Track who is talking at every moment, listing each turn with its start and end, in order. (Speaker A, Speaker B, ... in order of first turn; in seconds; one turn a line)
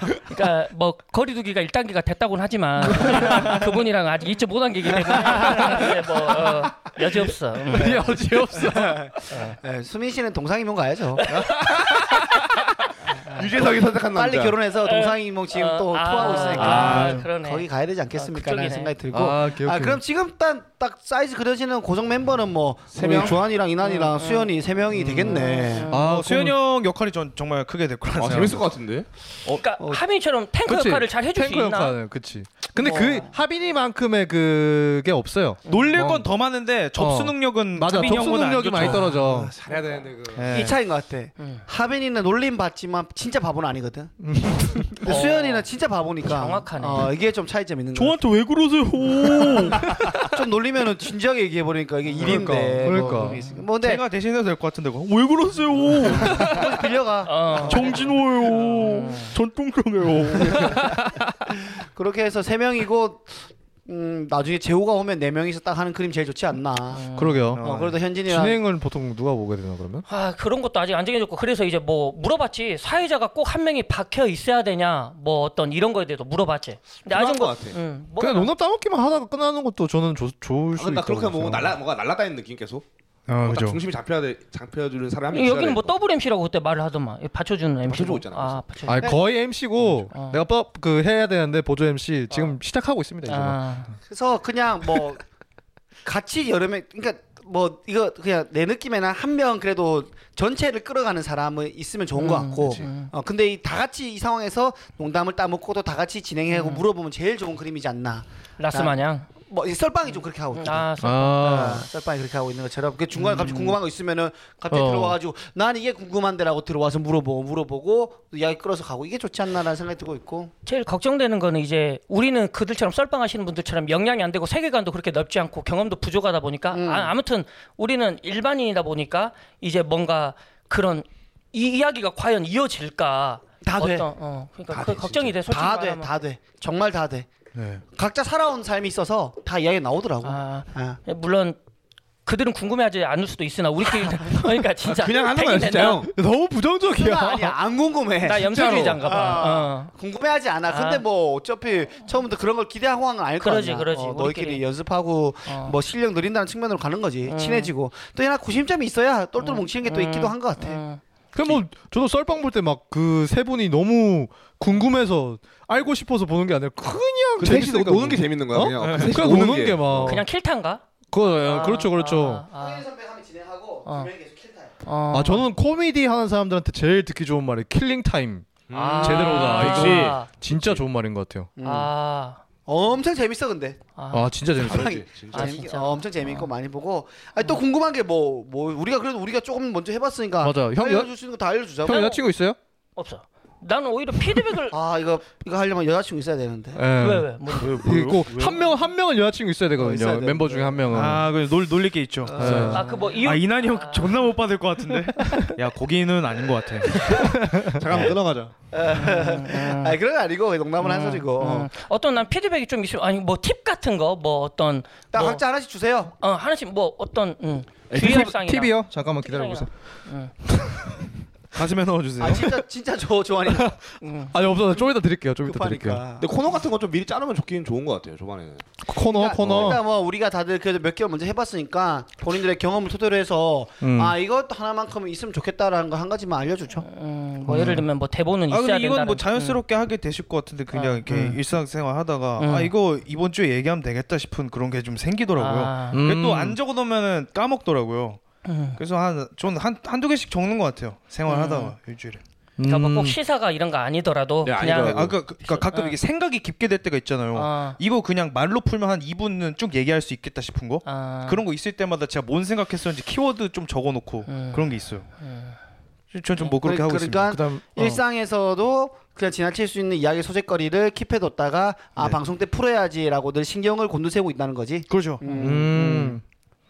Speaker A: 0.3-8.1
Speaker B: 3.0-3.6
Speaker B: 5.2-6.6
Speaker C: 5.4-5.7
Speaker B: 7.7-9.5
Speaker C: 8.5-11.3
Speaker A: 9.3-9.6
Speaker A: 11.2-12.5
Speaker B: 11.3-12.7
Speaker A: 13.0-13.5
Speaker D: 13.2-14.6
Speaker C: 14.1-25.9
Speaker A: 14.8-17.7
Speaker B: 16.6-17.2
Speaker D: 16.6-17.1
Speaker A: 18.2-18.9
Speaker B: 19.1-20.0
Speaker D: 22.9-23.4
Speaker A: 23.8-24.5
Speaker A: 25.2-26.0
Speaker B: 25.9-26.6
Speaker E: 25.9-28.7
Speaker D: 28.1-29.1
Speaker A: 29.5-32.0
Speaker B: 30.7-36.3
Speaker C: 32.8-33.3
Speaker A: 35.7-36.0
Speaker E: 35.7-39.1
Speaker B: 37.0-39.5
Speaker D: 39.3-40.6
Speaker C: 39.7-48.2
Speaker E: 40.4-40.8
Speaker A: 41.4-41.6
Speaker B: 44.2-45.0
Speaker A: 45.0-45.7
Speaker A: 46.2-47.1
Speaker E: 47.9-50.2
Speaker C: 49.4-54.0
Speaker B: 52.2-53.4
Speaker E: 53.8-56.8
Speaker C: 56.1-58.6
Speaker A: 57.3-59.4
Speaker E: 57.7-61.2
Speaker C: 61.7-67.1
Speaker A: 66.9-67.5
Speaker B: 67.2-67.7
Speaker E: 67.5-68.0
Speaker C: 67.6-68.6
Speaker B: 68.2-70.0
Speaker A: 70.1-78.5
Speaker D: 77.0-77.8
Speaker B: 78.2-81.8
Speaker D: 80.8-82.8
Speaker E: 83.3-83.8
Speaker D: 83.4-86.0
Speaker A: 85.3-89.1
Speaker D: 87.8-88.6
Speaker B: 88.9-93.6
Speaker A: 90.1-90.4
Speaker A: 93.3-94.0
Speaker C: 94.1-95.2
Speaker C: 96.0-120.5
Speaker A: 102.2-103.1
Speaker D: 102.6-102.9
Speaker A: 106.5-106.8
Speaker A: 108.6-109.3
Speaker A: 110.1-111.8
Speaker B: 111.0-111.9
Speaker A: 113.1-113.8
Speaker B: 114.7-115.2
Speaker A: 120.7-136.1
Speaker C: 126.7-127.1
Speaker C: 133.6-134.1
Speaker D: 134.7-135.4
Speaker C: 135.5-137.3
Speaker E: 137.5-137.8
Speaker C: 137.9-141.0
Speaker A: 140.2-141.6
Speaker A: 142.3-146.1
Speaker C: 143.8-144.6
Speaker D: 144.8-146.1
Speaker B: 146.1-147.6
Speaker C: 146.9-160.8
Speaker A: 148.2-149.9
Speaker D: 148.5-149.0
Speaker A: 150.7-151.0
Speaker A: 153.4-154.6
Speaker A: 155.5-155.8
Speaker A: 157.3-157.7
Speaker A: 159.4-161.0
Speaker B: 161.3-170.2
Speaker D: 167.4-170.2
Speaker E: 168.8-169.3
Speaker A: 170.0-170.8
Speaker B: 171.1-172.4
Speaker A: 171.4-172.8
Speaker C: 172.5-174.7
Speaker A: 173.8-174.1
Speaker A: 174.8-175.5
Speaker B: 175.1-181.5
Speaker D: 178.7-180.8
Speaker A: 178.7-180.3
Speaker C: 181.6-181.9
Speaker A: 181.6-182.4
Speaker C: 182.7-183.8
Speaker A: 184.0-184.3
Speaker B: 184.1-185.0
Speaker D: 184.6-185.6
Speaker C: 184.6-192.1
Speaker A: 185.3-186.5
Speaker B: 190.4-191.1
Speaker B: 191.8-192.6
Speaker A: 191.9-192.2
Speaker A: 193.0-194.8
Speaker C: 194.7-196.8
Speaker B: 196.8-201.3
Speaker A: 197.0-197.8
Speaker E: 197.6-198.6
Speaker D: 197.8-198.6
Speaker C: 199.8-200.9
Speaker E: 200.9-207.0
Speaker C: 202.2-203.0
Speaker B: 202.4-202.9
Speaker A: 202.7-204.2
Speaker D: 207.2-208.5
Speaker B: 207.2-208.1
Speaker C: 208.7-211.7
Speaker A: 208.9-210.0
Speaker A: 210.8-215.4
Speaker C: 215.1-216.1
Speaker A: 216.2-220.3
Speaker B: 217.9-219.7
Speaker B: 220.5-221.1
Speaker E: 221.5-222.5
Speaker C: 222.2-223.8
Speaker B: 223.5-226.0
Speaker A: 224.0-224.4
Speaker C: 225.4-226.3
Speaker D: 226.2-228.7
Speaker B: 228.8-229.8
Speaker C: 229.0-236.9
Speaker D: 229.4-229.8
Speaker B: 233.8-234.2
Speaker A: 236.8-239.6
Speaker B: 237.5-237.9
Speaker E: 238.5-248.2
Speaker A: 240.7-241.4
Speaker A: 242.4-242.7
Speaker A: 245.4-246.0
Speaker B: 245.9-246.6
Speaker A: 248.4-248.8
Speaker E: 248.8-252.2
Speaker A: 251.3-251.7
Speaker B: 252.6-253.2
Speaker A: 252.6-256.0
Speaker D: 254.4-255.2
Speaker E: 254.8-265.1
Speaker A: 257.3-257.8
Speaker A: 260.9-261.4
Speaker A: 264.3-265.6
Speaker E: 266.1-267.4
Speaker C: 266.6-276.2
Speaker B: 267.3-268.0
Speaker E: 274.9-275.2
Speaker A: 275.2-275.6
Speaker B: 275.4-276.2